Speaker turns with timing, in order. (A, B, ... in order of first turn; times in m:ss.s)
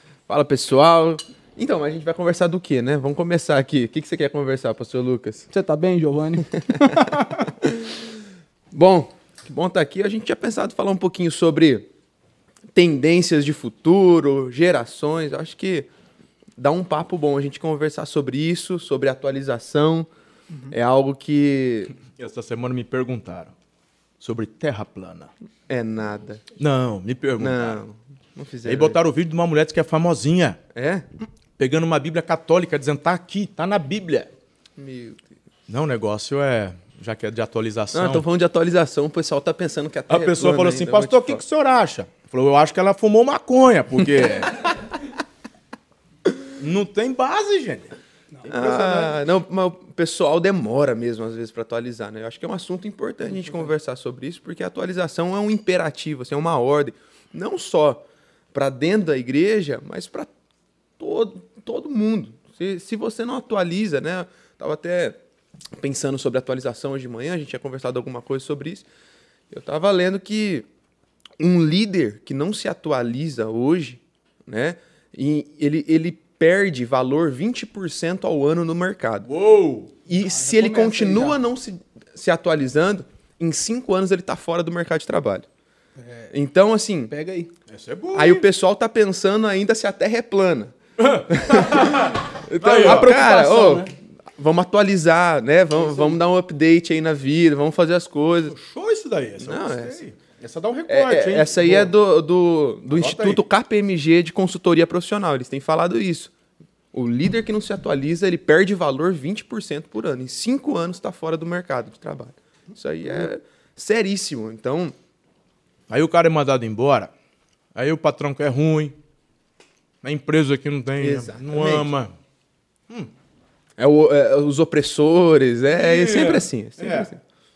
0:00.3-0:05.5 A
0:05.5-0:07.5 B
0:07.6-0:08.2 A
0:08.7-0:11.9 A
0:12.7-0:15.9 A
0:16.6-0:20.1 A
0:20.7-0:22.0 A
0:22.0-0:23.5 C
0:24.2-0:25.3 C
0:25.7-0:26.4 A
0:26.6-0:27.8 C
0:27.4-0:29.0 A
0:28.6-0:30.6 C
0:30.8-0:31.1 A
0:31.6-0:34.3 C
0:34.8-0:35.3 A
0:35.7-0:38.2 C
0:37.9-0:41.4 A
0:40.1-0:44.7 C
0:46.6-0:47.9 C
0:48.3-0:49.2 B
0:48.5-1:00.3 A
1:01.0-1:05.2 A
1:05.8-1:08.9 A
1:09.5-1:10.7 A
1:11.4-1:19.3 A
1:19.2-1:19.9 C
1:20.1-1:25.5 A
1:20.2-1:21.4 B
1:26.0-1:26.3 B
1:26.3-1:27.1 A
1:27.1-1:27.5 B
1:27.7-1:28.5 C
1:28.1-1:30.8 A
1:31.0-1:33.2 C
1:31.3-1:38.6 A
1:32.6-1:33.9 B
1:38.5-1:41.9 C
1:39.4-1:40.0 A
1:40.9-1:46.3 A
1:42.9-1:43.4 C
1:46.9-1:54.9 A
1:55.9-1:57.1 C
1:57.8-1:59.0 C
2:00.0-2:02.1 C
2:01.0-2:01.9 A
2:03.8-2:07.2 A
2:05.7-2:07.1 C